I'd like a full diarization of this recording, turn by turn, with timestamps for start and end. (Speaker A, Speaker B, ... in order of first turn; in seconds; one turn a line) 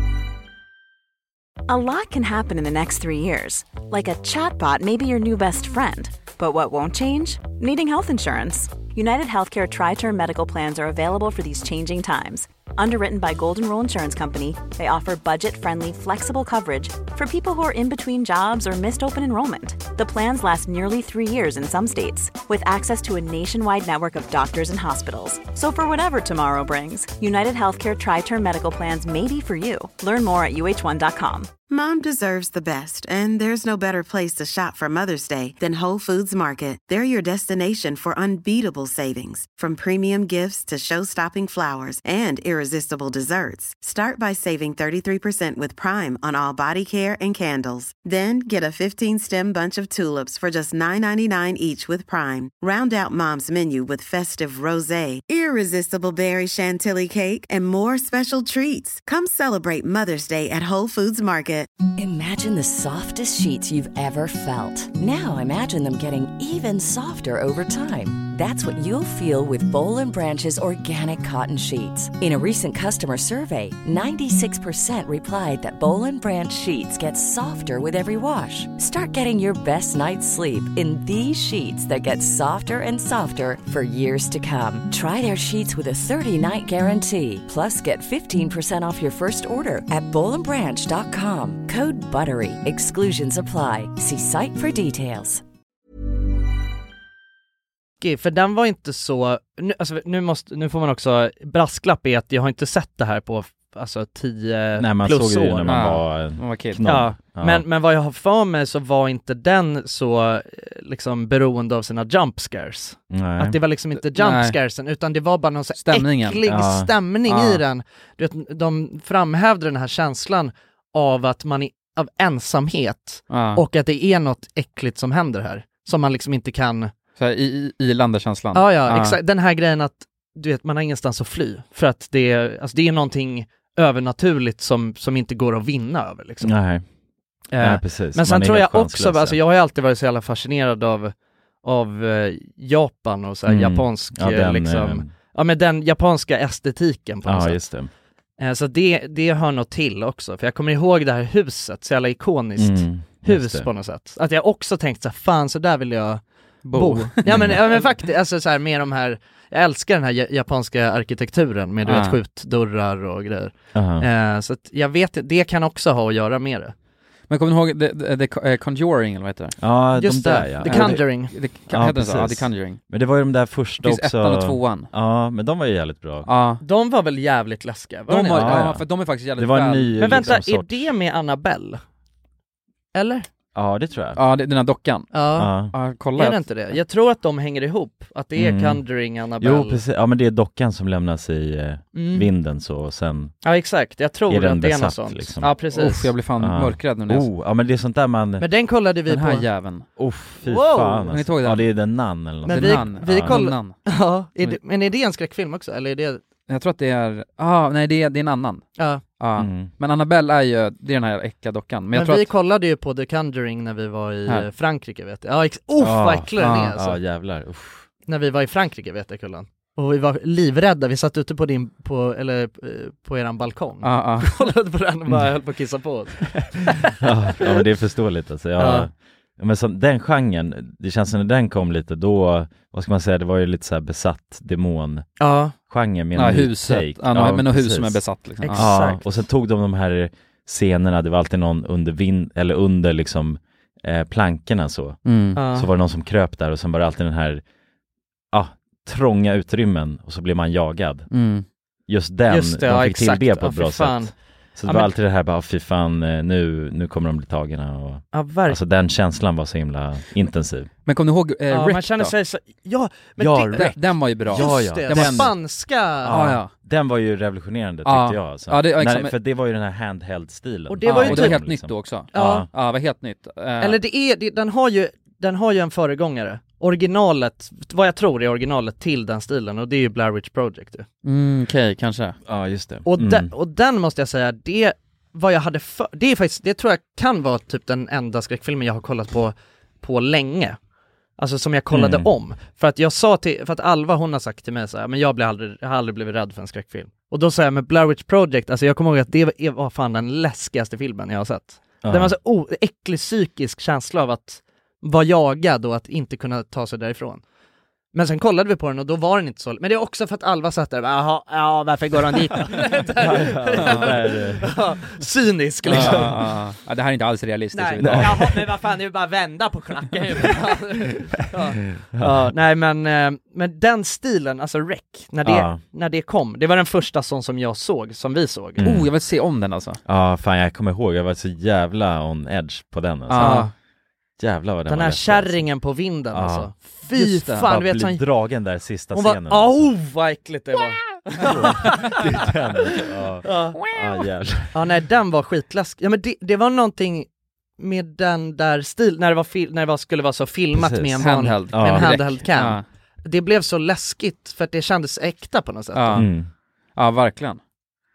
Speaker A: 1.7-31.5
Speaker B: 31.7-61.7
Speaker C: 62.0-95.4
Speaker D: 98.0-105.7
Speaker E: 104.8-107.6
Speaker F: 105.7-106.9
Speaker D: 106.8-126.9
Speaker E: 113.1-113.6
Speaker F: 114.1-114.6
Speaker F: 115.8-116.4
Speaker E: 116.4-116.9
Speaker F: 117.3-117.6
Speaker F: 123.3-123.6
Speaker F: 127.2-129.2
Speaker D: 128.5-136.6
Speaker E: 136.4-136.8
Speaker D: 137.5-147.6
Speaker E: 137.6-139.4
Speaker E: 143.5-145.1
Speaker E: 147.2-147.9
Speaker D: 148.4-156.2
Speaker E: 152.6-153.7
Speaker F: 156.6-157.2
Speaker D: 156.7-166.7
Speaker E: 157.2-157.6
Speaker F: 161.8-162.2
Speaker E: 163.7-164.1
Speaker F: 167.3-169.6
Speaker E: 169.6-171.1
Speaker D: 169.9-171.3
Speaker F: 170.6-172.8
Speaker E: 171.6-176.3
Speaker F: 173.8-174.9
Speaker F: 176.3-176.6
Speaker D: 176.6-178.6
Speaker F: 178.1-180.4
Speaker E: 178.3-180.9
Speaker D: 180.0-181.8
Speaker D: 182.9-183.3
Speaker E: 183.5-184.2
Speaker F: 184.2-186.4
Speaker D: 185.1-185.5
Speaker E: 185.4-185.7
Speaker D: 186.2-189.8
Speaker E: 188.4-188.8
Speaker E: 189.4-193.3
Speaker D: 191.9-192.3
Speaker D: 193.4-196.1
Speaker E: 194.3-195.5
Speaker F: 195.6-197.3
Speaker E: 196.4-198.4
Speaker D: 198.4-199.4
Speaker F: 199.1-199.9
Speaker E: 200.0-203.4
Speaker D: 200.4-201.1
Speaker F: 201.1-201.6
Speaker F: 202.4-203.8
Speaker D: 202.4-206.2
Speaker F: 206.5-208.6
Speaker D: 208.8-209.0
Speaker F: 209.2-212.3
Speaker E: 209.4-209.7
Speaker D: 211.9-217.0
Speaker E: 215.8-217.9
Speaker F: 216.4-216.7
Speaker D: 218.1-227.0
Speaker F: 223.8-224.3
Speaker E: 226.9-235.1
Speaker D: 228.6-228.9
Speaker D: 235.2-235.5
Speaker E: 235.7-238.0
Speaker F: 236.1-238.7
Speaker D: 238.4-239.0
Speaker E: 238.6-247.4
Speaker F: 245.1-245.4
Speaker D: 245.4-245.7
Speaker E: 248.3-251.1
Speaker F: 251.1-251.4
Speaker E: 251.9-260.7
Speaker D: 252.3-254.9
Speaker D: 258.1-258.6
Speaker F: 260.9-262.1
Speaker D: 261.5-266.2
Speaker E: 263.2-265.4
Speaker F: 263.6-265.4
Speaker E: 266.0-272.5
Speaker F: 266.1-266.5
Speaker F: 267.9-269.1
Speaker D: 270.7-271.4
Speaker F: 270.8-273.8
Speaker D: 272.1-272.5
Speaker D: 273.6-280.9
Speaker F: 281.0-282.2
Speaker E: 282.3-283.3
Speaker D: 282.9-290.6
Speaker D: 291.2-307.2
Speaker E: 291.7-292.1
Speaker E: 301.8-302.1
Speaker D: 307.9-316.2
Speaker E: 313.0-314.6
Speaker F: 313.6-313.9
Speaker F: 315.7-318.2
Speaker E: 315.7-316.2
Speaker D: 317.5-328.6
Speaker E: 317.8-318.5
Speaker E: 321.9-322.3
Speaker E: 325.2-325.6
Speaker E: 328.6-328.9
Speaker F: 328.6-329.8
Speaker E: 329.9-333.5
Speaker F: 333.1-333.5
Speaker D: 333.1-333.5
Speaker E: 334.2-335.5
Speaker D: 334.7-338.0
Speaker E: 336.1-336.5
Speaker F: 336.9-337.5
Speaker E: 337.4-339.7
Speaker D: 338.9-342.1
Speaker E: 341.2-344.6
Speaker D: 343.2-343.6
Speaker D: 344.5-347.1
Speaker D: 347.6-356.1
Speaker E: 350.5-352.0
Speaker F: 351.0-352.6
Speaker F: 355.7-356.1
Speaker E: 355.9-356.3
Speaker F: 356.8-357.4